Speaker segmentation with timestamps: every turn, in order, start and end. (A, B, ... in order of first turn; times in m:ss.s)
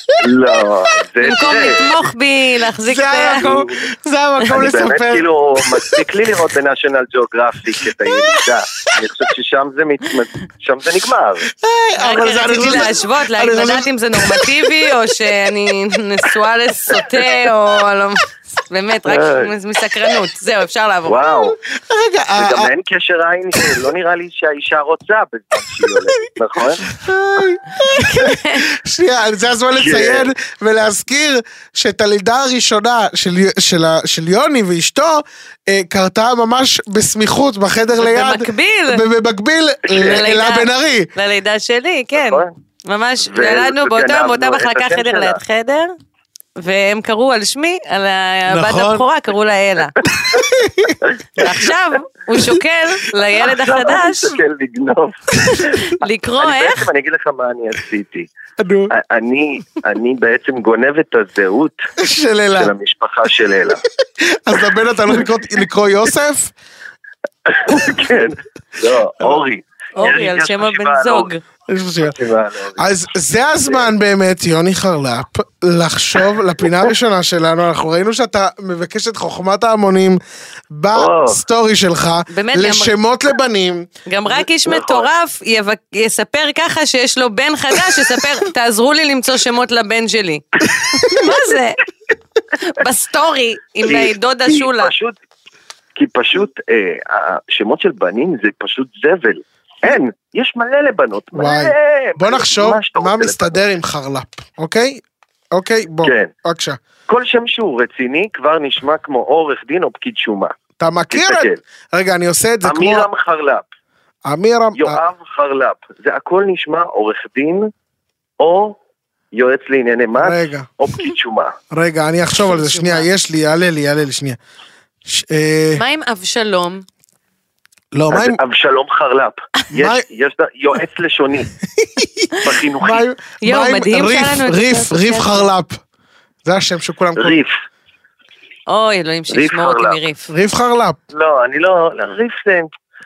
0:00.2-0:01.8 A
0:01.2-0:03.6 B
0:02.8-0:06.0 C
0:03.4-0:03.7 A
0:04.5-0:11.5 A
0:08.1-0:08.4 C
0:11.6-0:14.9 C
0:12.0-0:21.3 B
0:19.1-0:19.5 A
0:21.1-0:21.6 A
0:21.3-0:22.7 C
0:22.4-0:27.0 A
0:23.6-0:23.8 C
0:26.9-0:41.1 C
0:27.9-0:28.7 B
0:29.8-0:30.3 A
0:38.0-0:39.0 B
0:39.9-0:45.9 B
0:42.2-0:42.5 A
0:43.2-0:45.4 A
0:46.6-0:50.0 B
0:48.5-0:49.0 C
0:50.3-0:51.0 C
0:51.4-0:54.4 B
0:53.4-0:58.3 A
0:55.4-0:56.8 B
0:58.6-0:58.9 C
0:58.9-1:01.8 A
1:02.0-1:02.7 C
1:02.6-1:03.8 A
1:04.2-1:06.5 C
1:07.5-1:11.3 A
1:07.8-1:08.0 C
1:10.0-1:11.4 B
1:11.7-1:12.2 C
1:12.0-1:12.8 A
1:12.8-1:20.2 C
1:20.7-1:23.9 C
1:20.9-1:21.4 A
1:22.3-1:23.0 B
1:24.1-1:31.8 B
1:24.7-1:25.1 A
1:32.6-1:34.9 B
1:33.8-1:35.2 A
1:36.0-1:43.6 A
1:41.3-1:45.0 C
1:45.5-1:46.8 C
1:46.0-1:46.3 A
1:47.1-1:50.5 A
1:50.8-1:53.1 C
1:51.1-1:51.6 A
1:52.6-1:53.6 A
1:54.2-1:55.0 C
1:54.8-1:57.7 A
1:58.4-1:58.8 A
1:59.3-2:01.6 A
2:00.2-2:00.7 C
2:01.7-2:04.4 C
2:02.4-2:03.1 B
2:05.1-2:05.8 C
2:05.8-2:06.8 B
2:07.9-2:08.4 C
2:08.1-2:11.5 A
2:09.7-2:10.0 C
2:11.8-2:12.3 C
2:12.4-2:13.0 A
2:12.8-2:15.8 C
2:13.4-2:15.5 B
2:16.4-2:17.4 C
2:17.2-2:17.5 A
2:18.7-2:20.3 B
2:19.3-2:20.0 A
2:20.3-2:21.0 C
2:21.1-2:22.7 A